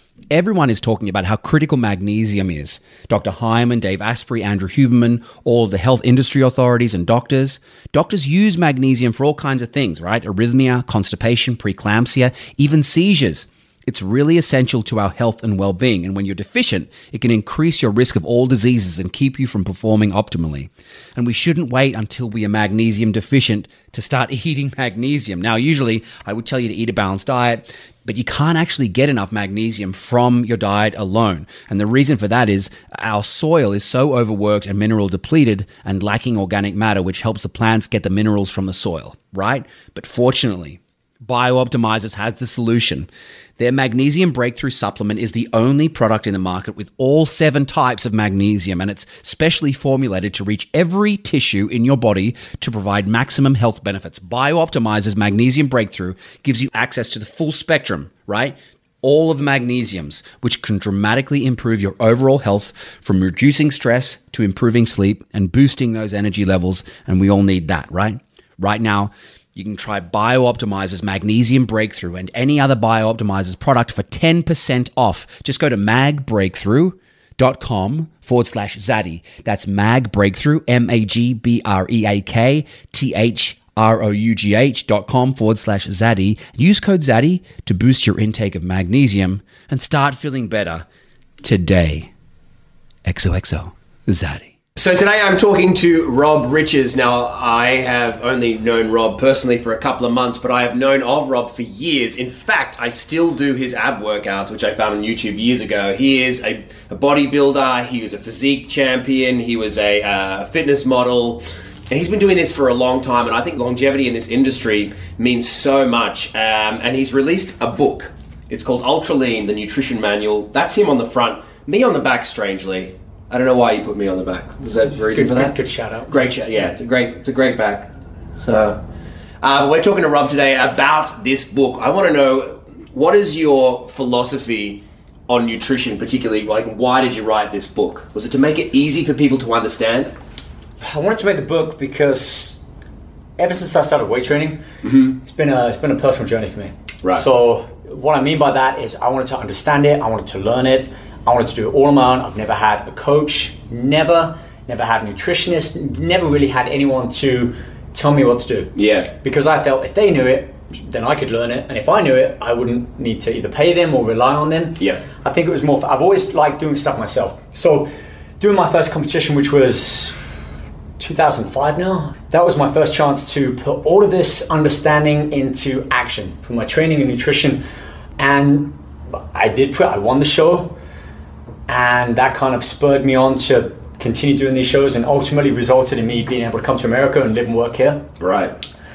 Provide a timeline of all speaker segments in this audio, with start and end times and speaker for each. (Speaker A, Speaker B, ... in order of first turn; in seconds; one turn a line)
Speaker A: 0.3-90.8
Speaker A: 91.4-92.1
Speaker A: 93.0-94.5
Speaker B: 94.8-125.5
Speaker C: 125.0-126.3
Speaker B: 126.1-128.8
Speaker B: 129.4-140.1
Speaker C: 140.8-142.6
Speaker C: 143.4-167.9
Speaker B: 144.8-145.1
Speaker B: 158.8-159.1
Speaker C: 168.4-170.2
Speaker C: 171.0-177.6
Speaker C: 178.2-178.8
Speaker C: 179.3-180.8
Speaker C: 181.7-188.1
Speaker B: 188.2-188.6